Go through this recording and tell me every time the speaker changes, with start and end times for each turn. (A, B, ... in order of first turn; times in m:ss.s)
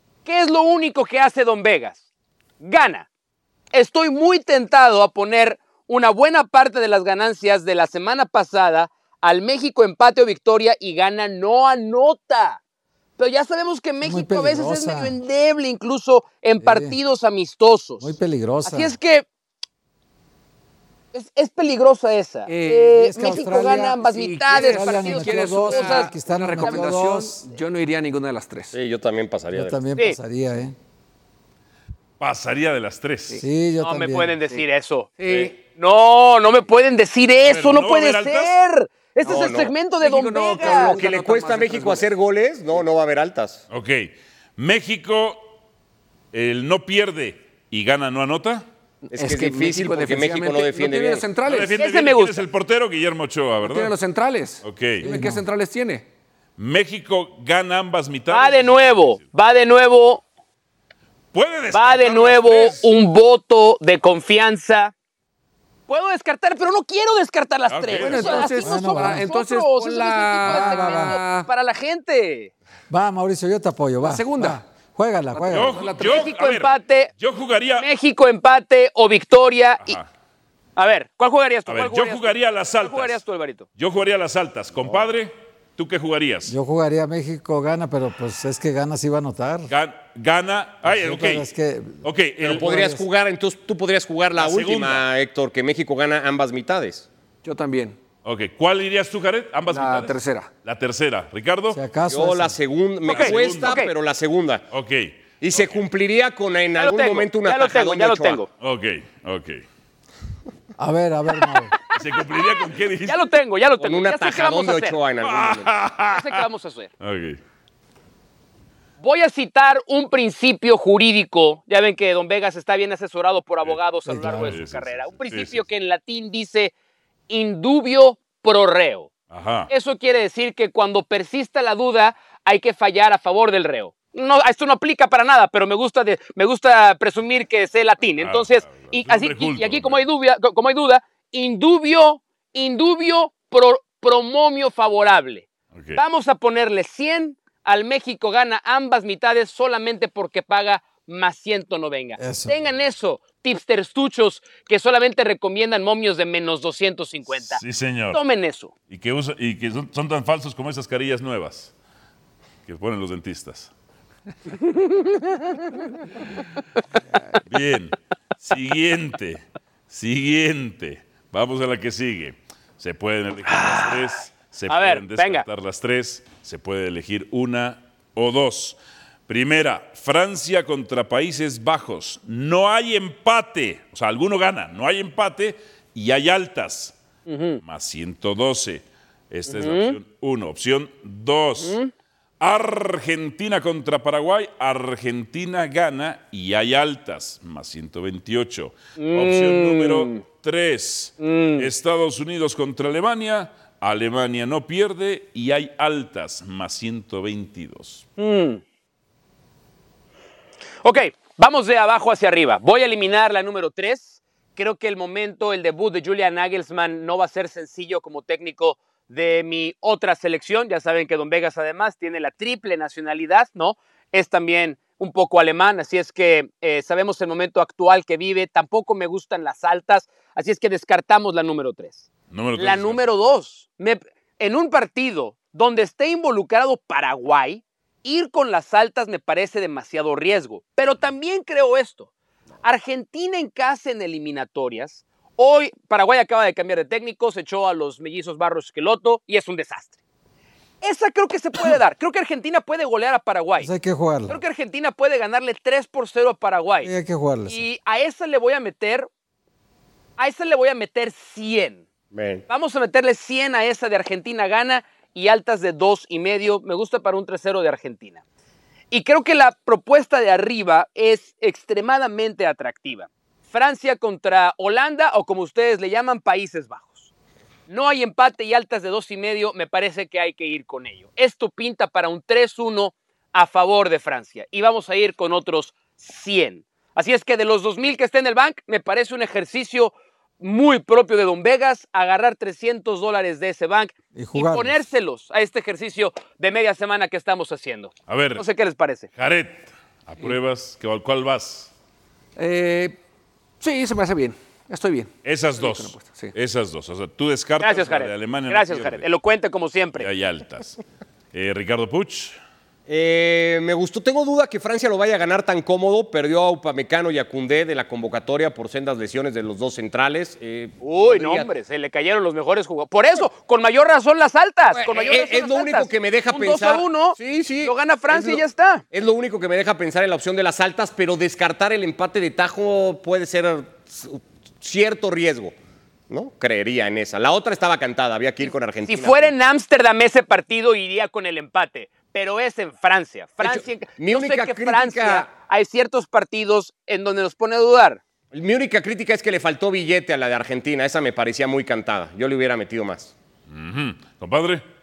0:00.2-0:02.0 A
0:02.6-0:03.1 A
0:03.7-0:12.6 A
0:13.2-0:18.1 A
0:14.0-0:15.2 B
0:16.6-0:17.0 B
0:18.0-0:19.0 B
0:18.6-0:19.3 A
0:21.1-0:26.9 A
0:22.5-0:28.8 C
0:22.8-0:27.4 B
0:28.7-0:29.8 D
0:29.5-0:30.8 B
0:32.2-0:33.4 E
0:33.4-0:34.4 B
0:33.8-0:41.0 A
0:35.2-0:35.6 C
0:37.4-0:38.6 E
0:39.2-0:39.8 D
0:40.0-0:42.1 C
0:40.6-0:43.6 D
0:43.7-0:45.5 E
0:46.3-0:48.6 E
0:49.0-0:51.8 C
0:49.1-0:51.3 D
0:51.4-0:54.0 E
0:51.8-0:52.5 A
0:53.6-0:56.1 C
0:54.6-0:55.1 E
0:55.0-0:55.4 B
0:56.6-0:59.3 E
0:58.3-1:00.2 A
1:01.3-1:02.9 E
1:01.7-1:04.9 A
1:05.9-1:12.5 A
1:07.7-1:08.6 E
1:07.9-1:11.5 C
1:08.6-1:09.3 B
1:10.4-1:11.2 B
1:12.9-1:15.8 B
1:14.0-1:14.6 C
1:15.3-1:16.2 C
1:15.5-1:17.9 E
1:16.0-1:17.1 A
1:17.8-1:20.0 A
1:19.8-1:20.1 E
1:20.8-1:23.7 A
1:21.7-1:23.2 E
1:23.8-1:26.5 E
1:26.5-1:29.7 B
1:29.7-1:31.5 E
1:30.8-1:33.1 B
1:32.0-1:32.7 E
1:32.4-1:37.1 D
1:34.4-1:35.1 E
1:37.4-1:38.0 C
1:38.2-1:41.8 E
1:39.7-1:40.5 C
1:41.7-1:42.6 B
1:42.1-1:44.7 D
1:43.0-1:43.8 E
1:43.0-1:43.9 A
1:44.7-1:45.8 E
1:45.4-1:48.4 D
1:46.8-1:48.5 A
1:48.6-1:49.6 E
1:50.8-1:51.7 B
1:51.9-1:53.3 E
1:52.2-1:55.0 A
1:53.8-1:55.7 D
1:55.2-1:56.5 E
1:56.1-1:56.9 A
1:57.0-1:57.4 E
1:59.0-2:06.7 A
2:03.6-2:05.7 E
2:04.1-2:04.6 B
2:07.3-2:09.1 A
2:09.3-2:09.7 E
2:09.7-2:37.6 A
2:18.2-2:20.0 E
2:25.7-2:26.0 E
2:32.2-2:32.6 B
2:37.5-2:38.2 E
2:38.1-2:38.7 A
2:38.9-2:41.7 E
2:42.7-2:43.7 E
2:44.9-2:45.2 A
2:47.5-3:07.0 E
2:53.5-2:54.2 A
2:54.7-2:55.5 A
3:07.3-3:07.6 A
3:07.6-3:11.8 E
3:09.5-3:10.0 A
3:11.6-3:11.9 A
3:12.4-3:28.1 E
3:19.0-3:20.2 A
3:21.2-3:21.7 A
3:28.2-3:28.6 A
3:30.8-3:52.1 A
3:52.3-3:53.0 E
3:52.6-4:02.1 A
4:02.6-4:10.0 A
4:10.8-4:13.7 A
4:13.6-4:14.4 B
4:14.3-4:16.9 A
4:16.8-4:17.7 B
4:17.5-4:19.1 A
4:20.2-4:21.8 A
4:22.1-4:22.4 D
4:22.5-4:28.2 A
4:28.9-4:37.1 A
4:37.7-4:59.1 A
4:54.1-4:54.8 B
4:58.1-4:58.4 E
4:59.2-5:01.7 E
5:02.4-5:03.0 C
5:03.6-5:06.4 C
5:05.2-5:09.1 E
5:07.6-5:10.1 A
5:10.0-5:10.8 E
5:11.3-5:12.4 E
5:12.9-5:21.5 D
5:20.8-5:28.8 A
5:24.7-5:35.5 D
5:36.1-5:39.3 D
5:38.8-5:48.0 A
5:43.4-5:45.3 D
5:48.3-5:53.1 D
5:53.5-5:54.6 E